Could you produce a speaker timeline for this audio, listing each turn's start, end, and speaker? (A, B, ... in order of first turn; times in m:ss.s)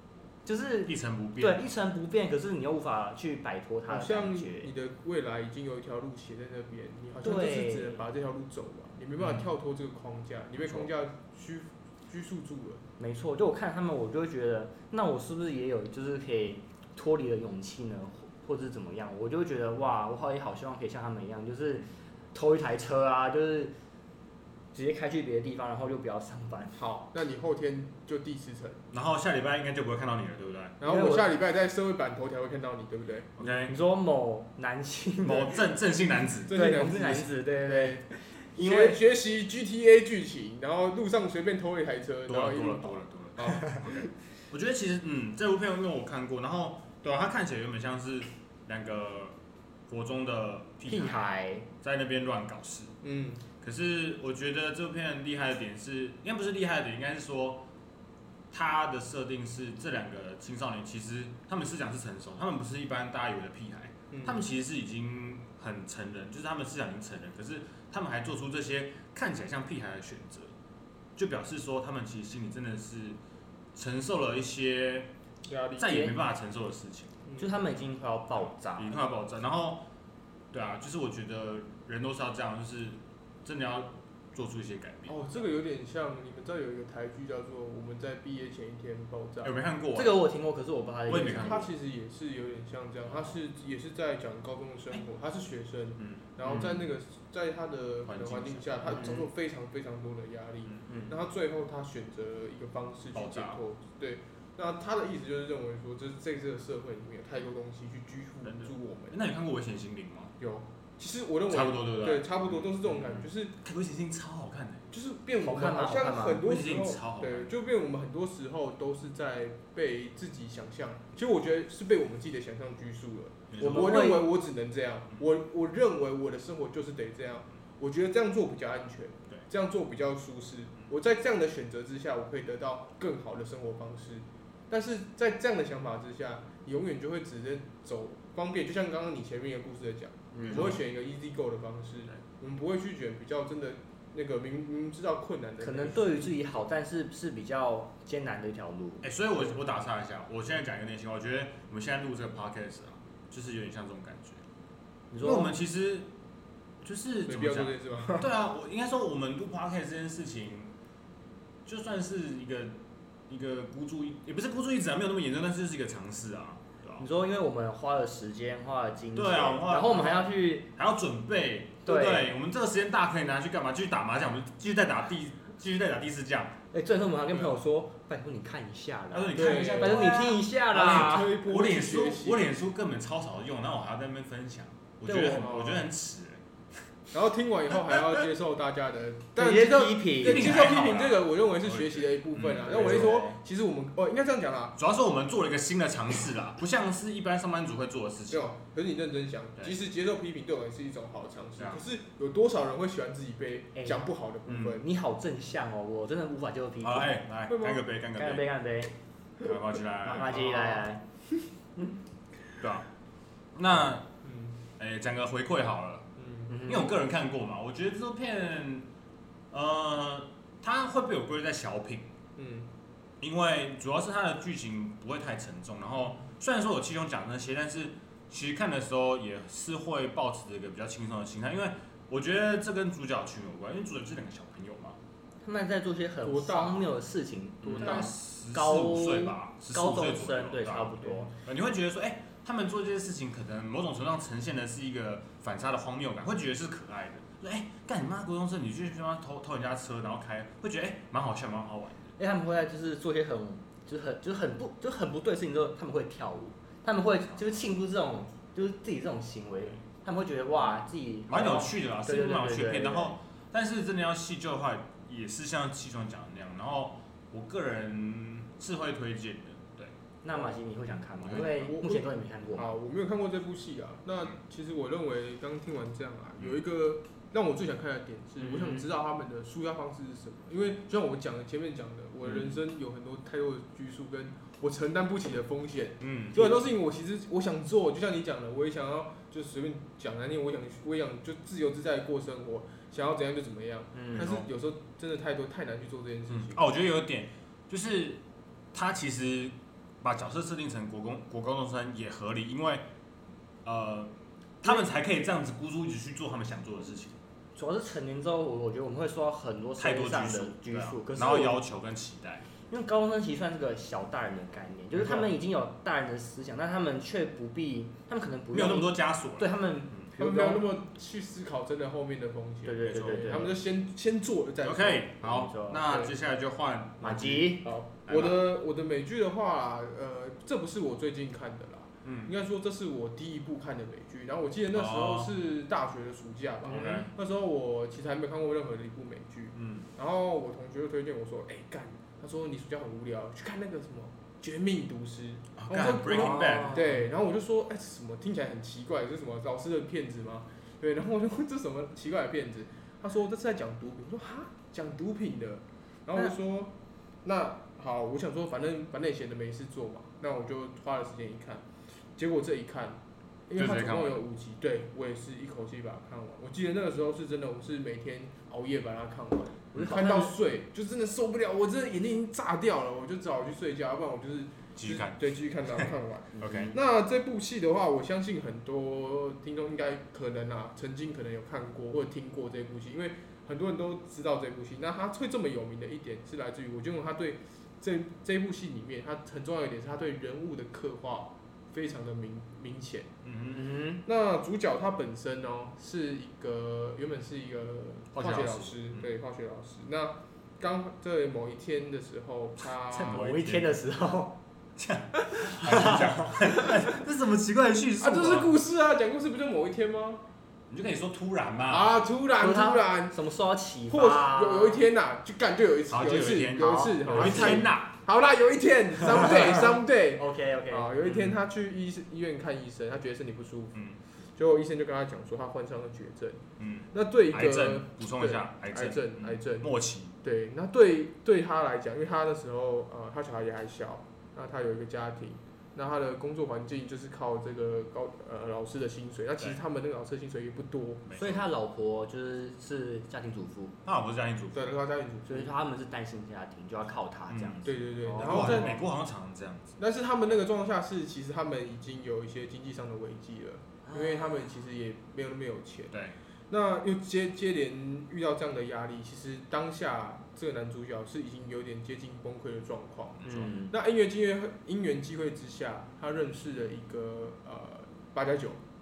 0:00.4-0:04.7 A
0:00.8-0:01.6 B
0:03.9-0:12.8 C
0:07.2-0:08.0 A
0:09.2-0:09.4 B
0:13.0-0:23.7 A
0:24.7-0:26.8 A
0:26.7-0:28.8 C
0:28.9-0:30.8 B
0:30.8-0:33.3 C
0:30.8-0:31.3 A
0:33.4-0:33.8 B
0:33.7-0:35.6 A
0:35.2-0:36.6 B
0:36.5-0:44.1 C
0:36.5-0:39.0 A
0:42.3-0:49.4 B
0:49.9-0:52.9 B
0:50.9-0:51.7 A
0:53.0-0:53.4 C
0:53.6-0:57.6 B
0:58.5-1:10.5 B
1:04.1-1:04.4 C
1:11.2-1:13.2 B
1:13.7-1:15.1 B
1:15.5-1:16.1 C
1:15.8-1:17.1 B
1:15.8-1:16.1 A
1:17.3-1:17.5 C
1:17.4-1:19.0 A
1:18.8-1:19.9 B
1:20.5-1:25.2 B
1:25.1-1:29.5 C
1:29.4-1:30.2 B
1:29.9-1:31.7 A
1:31.1-1:31.7 B
1:31.2-1:49.2 C
1:36.4-1:36.8 A
1:38.0-1:39.1 B
1:38.9-1:39.2 A
1:40.9-1:41.1 A
1:43.1-1:43.6 B
1:48.4-1:50.3 B
1:50.4-1:53.5 C
1:51.5-1:54.9 B
1:54.9-2:26.3 C
1:55.4-1:56.4 A
1:56.4-1:57.5 B
2:03.5-2:04.1 B
2:03.6-2:04.3 A
2:20.3-2:20.7 A
2:20.4-2:20.8 B
2:25.6-2:29.0 A
2:29.0-2:34.4 B
2:35.1-2:35.6 A
2:35.2-2:36.1 B
2:36.8-2:40.7 B
2:37.2-2:38.3 C
2:41.6-2:47.0 B
2:47.0-2:50.7 A
2:49.1-2:56.6 B
2:51.8-2:52.3 A
2:56.7-3:01.4 A
2:59.1-3:06.4 B
2:59.3-3:02.5 C
3:05.0-3:05.5 A
3:05.2-3:05.9 C
3:07.1-3:14.8 C
3:07.7-3:08.2 B
3:09.4-3:10.6 A
3:10.2-3:13.3 B
3:12.7-3:13.4 A
3:14.8-3:18.5 B
3:18.3-3:24.8 C
3:21.6-3:21.8 B
3:23.8-3:24.0 A
3:24.5-3:24.8 B
3:24.6-3:27.2 A
3:26.8-3:28.4 B
3:27.5-3:27.8 C
3:28.1-3:28.9 A
3:29.4-3:30.7 B
3:30.0-3:31.0 A
3:30.4-3:30.8 C
3:32.6-3:32.8 B
3:33.5-3:34.1 B
3:34.2-3:34.5 C
3:34.8-3:36.1 B
3:36.2-3:36.5 C
3:36.5-3:36.9 A
3:36.6-3:38.9 B
3:39.5-3:42.1 B
3:42.4-3:42.7 C
3:43.2-3:55.0 B
3:55.4-4:01.3 A
3:56.2-3:56.9 C
3:57.6-4:12.1 B
3:57.6-3:58.1 C
4:12.2-4:23.2 A
4:21.3-4:29.9 B
4:30.2-4:32.7 A
4:30.3-4:30.6 C
4:31.2-4:31.7 B
4:31.3-4:56.6 C
4:38.4-4:38.8 A
4:46.0-4:46.5 B
4:53.9-4:54.4 A
4:54.2-4:54.4 B
4:56.3-4:58.2 B
4:58.7-5:02.8 B
5:03.6-5:07.2 B
5:07.5-5:11.6 A
5:09.8-5:12.4 B
5:12.7-5:20.6 A
5:14.9-5:15.3 B
5:18.5-5:20.1 B
5:20.2-5:25.1 C
5:22.6-5:23.5 A
5:22.8-5:23.3 B
5:24.6-5:28.4 B
5:25.2-5:25.9 A
5:25.8-5:26.1 C
5:27.0-5:27.7 A
5:27.6-5:56.7 C
5:32.0-5:32.3 B
5:34.7-5:35.3 B
5:36.6-5:37.1 B
5:36.7-5:37.1 A
5:39.5-5:39.8 B
5:45.6-5:46.8 B
5:46.1-5:47.1 A
5:57.2-6:01.6 C
6:02.2-6:33.1 C
6:03.5-6:04.2 B
6:09.8-6:10.3 A
6:14.8-6:15.9 B
6:16.4-6:16.7 A
6:16.4-6:16.7 B
6:33.2-6:33.6 B
6:33.5-6:34.0 A
6:34.0-6:43.2 C
6:38.1-6:39.1 B
6:42.9-6:43.8 B
6:42.9-6:44.4 A
6:44.8-6:48.5 B
6:45.2-6:46.7 A
6:48.0-6:50.2 C
6:50.7-6:52.0 B
6:51.7-6:53.2 C
6:52.4-6:54.8 A
6:53.9-7:03.8 C
6:55.9-6:57.9 B
6:56.6-6:57.6 A
6:59.0-7:00.9 A
7:01.0-7:01.3 B
7:04.4-7:09.7 C
7:06.6-7:10.1 B
7:10.2-7:21.0 C
7:21.0-7:21.5 B
7:21.2-7:23.8 A
7:23.8-7:24.7 B
7:24.5-7:25.5 C
7:25.3-7:28.7 A
7:27.3-7:27.6 B
7:27.6-7:28.8 C
7:28.2-7:29.8 B
7:29.8-7:36.0 C
7:33.8-7:34.4 A
7:36.5-7:48.6 C
7:43.2-7:43.5 B
7:43.2-7:43.7 A